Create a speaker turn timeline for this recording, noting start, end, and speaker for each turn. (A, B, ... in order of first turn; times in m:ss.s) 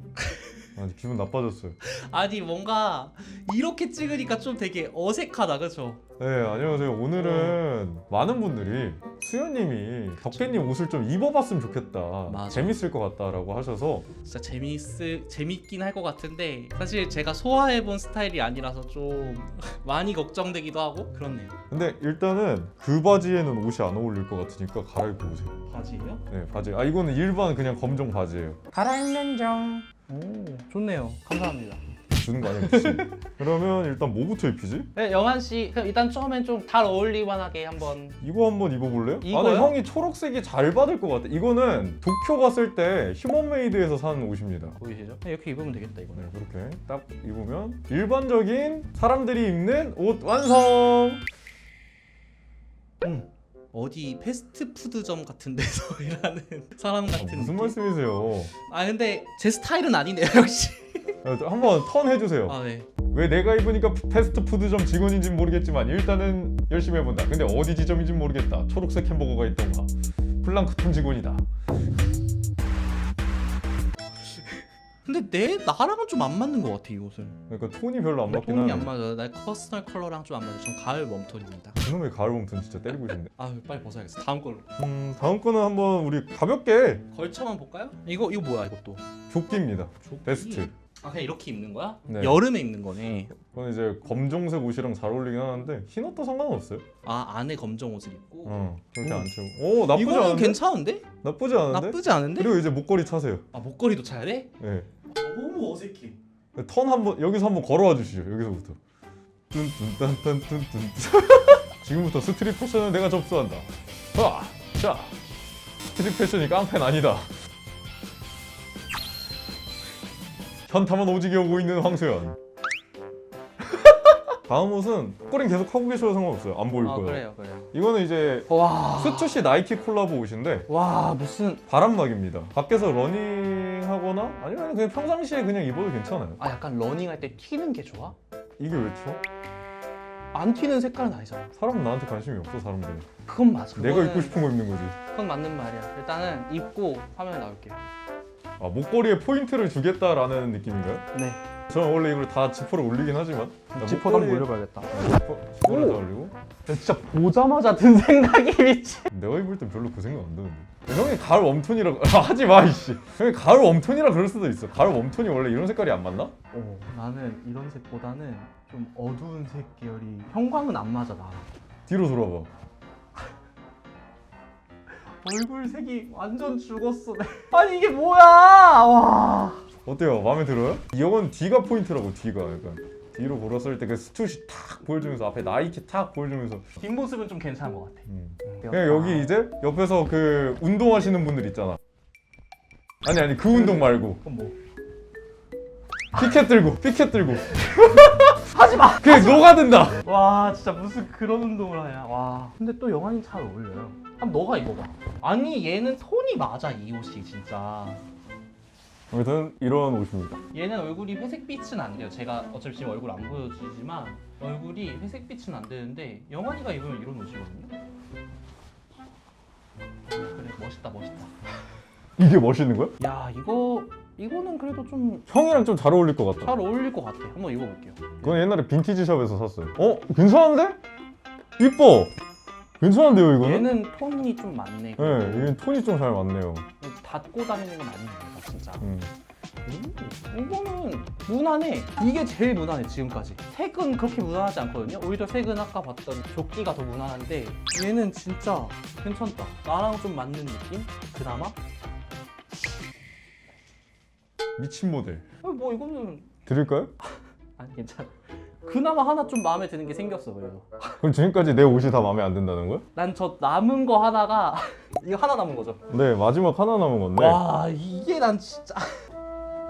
0:00.2-0:00.6 A
0:00.8-0:01.8 B
0:01.8-0:06.0 A
0:06.2-0:14.1 B
0:07.2-0:07.6 A
0:10.2-0:10.6 A
0:12.3-0:12.8 A
0:14.2-0:21.6 A
0:21.7-0:25.6 B
0:25.6-0:26.2 A
0:26.3-0:28.7 B
0:28.7-0:31.8 A
0:32.1-0:34.9 B
0:32.4-0:33.3 A
0:34.9-0:38.2 A
0:38.2-0:44.8 B
0:39.2-0:39.7 A
0:44.8-0:46.3 A
0:46.1-0:51.2 B
0:53.0-0:57.8 A
0:57.2-0:58.5 B
0:58.5-1:01.2 A
1:01.2-1:11.4 B
1:02.4-1:03.0 A
1:14.3-1:17.4 A
1:17.5-1:18.9 B
1:18.3-1:21.8 A
1:21.8-1:23.3 B
1:23.3-1:24.6 A
1:24.8-1:27.0 B
1:27.1-1:29.1 A
1:29.3-1:30.7 B
1:30.0-1:33.4 A
1:32.1-1:32.4 B
1:33.4-1:36.8 B
1:37.0-1:39.3 A
1:38.4-1:40.6 B
1:39.8-1:41.1 A
1:41.2-1:43.4 B
1:41.7-1:42.6 A
1:43.5-1:46.2 A
1:44.6-1:44.9 B
1:46.5-1:48.8 B
1:49.5-1:55.2 B
1:55.9-1:57.3 B
2:00.7-2:02.4 B
2:04.5-2:10.7 B
2:06.8-2:07.7 A
2:08.5-2:09.5 A
2:10.7-2:11.6 A
2:11.7-2:16.4 B
2:16.4-2:18.1 A
2:18.6-2:19.2 B
2:20.3-2:21.5 A
2:21.6-2:23.1 B
2:23.2-2:24.4 A
2:23.8-2:25.0 B
2:25.0-2:27.8 A
2:28.6-2:31.0 B
2:31.1-2:31.4 A
2:31.7-2:36.3 B
2:33.7-2:35.1 A
2:35.6-2:36.0 A
2:36.7-2:39.1 A
2:39.1-2:46.3 B
2:46.5-2:51.5 A
2:51.9-2:52.5 B
2:55.2-2:59.7 A
2:59.8-3:06.7 B
3:06.8-3:09.3 A
3:08.1-3:11.8 B
3:13.0-3:14.2 B
3:13.4-3:14.5 A
3:16.1-3:17.6 B
3:17.4-3:28.0 A
3:18.9-3:20.0 B
3:29.1-3:30.4 B
3:30.5-3:37.7 A
3:40.1-3:41.3 A
3:42.2-3:42.9 B
3:43.0-3:45.2 A
3:45.3-3:46.6 B
3:46.4-3:48.3 A
3:48.2-3:50.8 B
3:51.6-3:52.1 B
3:52.8-3:53.7 B
3:53.4-3:55.5 A
3:55.0-3:56.7 B
3:56.8-3:58.8 A
3:58.8-3:59.1 B
3:59.6-4:11.6 A
4:14.6-4:15.2 B
4:15.4-4:16.4 A
4:16.4-4:16.9 B
4:17.6-4:21.0 A
4:21.0-4:22.8 B
4:22.9-4:25.8 A
4:25.9-4:27.4 B
4:27.2-4:29.0 A